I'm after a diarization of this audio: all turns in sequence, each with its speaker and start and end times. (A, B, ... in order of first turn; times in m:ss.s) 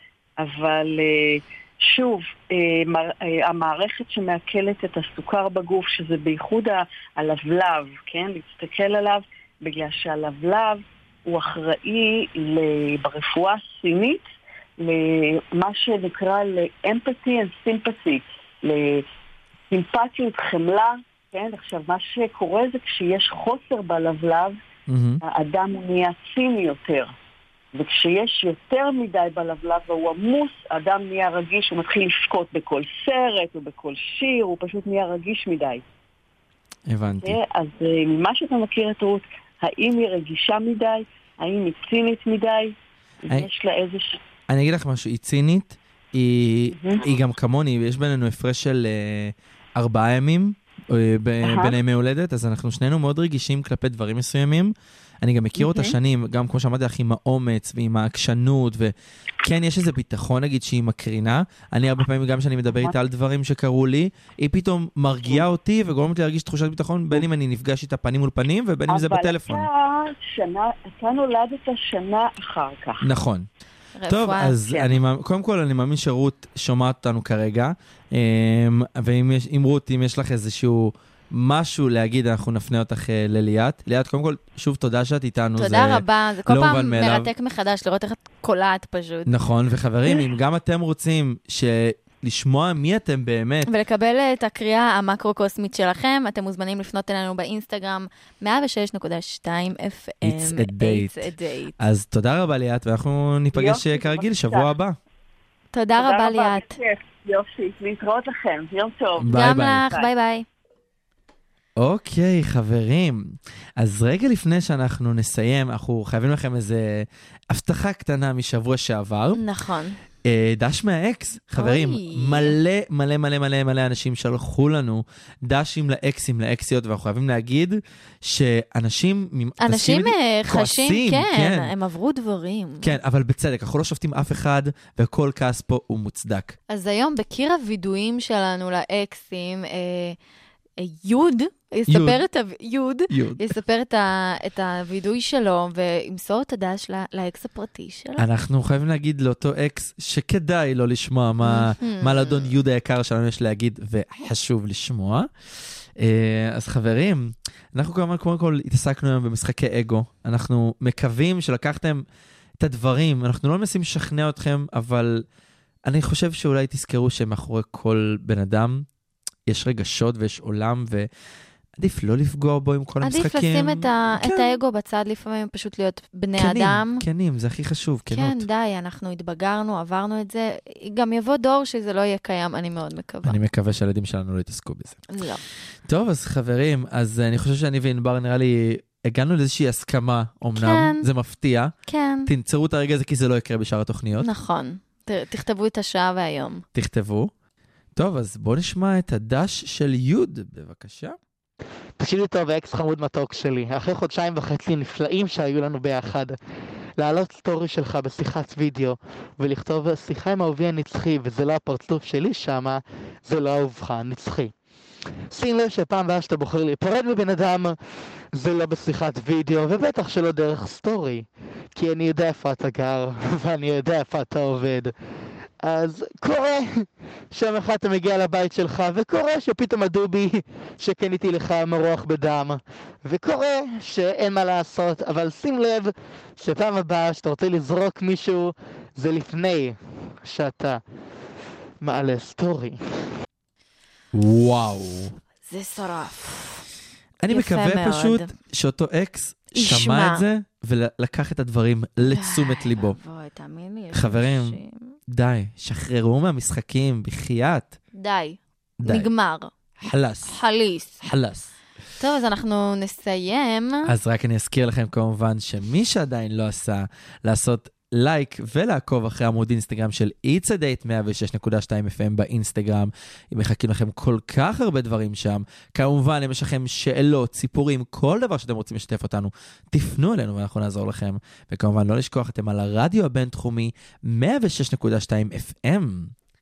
0:00.4-0:14.3 A
0:14.8-0:19.0 A
0:19.7-0:24.6 A
0:24.9-0:25.2 B
0:25.2-0:27.1 A
0:27.7-0:35.8 A
0:36.9-0:37.4 B
0:37.2-0:44.2 A
0:44.5-1:09.7 B
0:46.8-0:47.1 A
0:51.4-0:51.8 A
0:55.6-0:56.0 A
1:08.9-1:13.0 A
1:13.0-1:13.5 B
1:14.0-1:14.6 C
1:14.1-1:27.3 B
1:14.7-1:15.0 A
1:25.6-1:29.3 C
1:29.3-1:33.7 B
1:33.7-1:41.8 C
1:40.2-1:45.0 B
1:43.5-1:44.7 A
1:45.7-1:46.8 C
1:46.0-1:50.1 A
1:49.2-1:49.9 B
1:49.3-1:50.5 C
1:51.8-1:59.4 B
1:59.4-2:00.0 C
2:00.3-2:11.7 B
2:01.6-2:02.6 C
2:09.6-2:13.0 C
2:12.8-2:16.6 B
2:16.7-2:20.2 C
2:20.8-2:28.2 C
2:21.9-2:22.2 B
2:23.1-2:23.5 B
2:28.2-2:35.3 B
2:31.4-2:32.5 C
2:36.0-2:42.0 B
2:42.6-2:45.2 B
2:45.9-2:48.9 B
2:49.5-2:51.1 B
2:51.8-2:54.6 B
2:53.0-2:57.0 C
2:56.4-2:58.5 B
2:58.1-3:03.4 C
3:03.2-3:05.0 B
3:05.1-3:05.4 C
3:05.9-3:11.7 B
3:10.5-3:11.1 C
3:11.9-3:12.3 C
3:12.3-3:14.3 B
3:14.2-3:16.6 C
3:16.8-3:17.3 B
3:18.0-3:21.2 B
3:22.0-3:26.4 D
3:27.0-3:34.5 D
3:35.3-3:37.8 D
3:38.3-3:44.9 D
3:45.6-4:00.8 D
4:01.8-4:02.8 D
4:04.1-4:05.2 B
4:05.5-4:06.6 C
4:07.2-4:13.0 B
4:07.3-4:08.3 C
4:09.6-4:10.2 C
4:12.0-4:15.0 C
4:13.9-4:17.8 B
4:18.0-4:19.5 C
4:18.8-4:19.1 B
4:19.8-4:20.4 B
4:20.3-4:21.0 C
4:21.0-4:21.5 B
4:22.0-4:23.9 C
4:23.9-4:46.1 B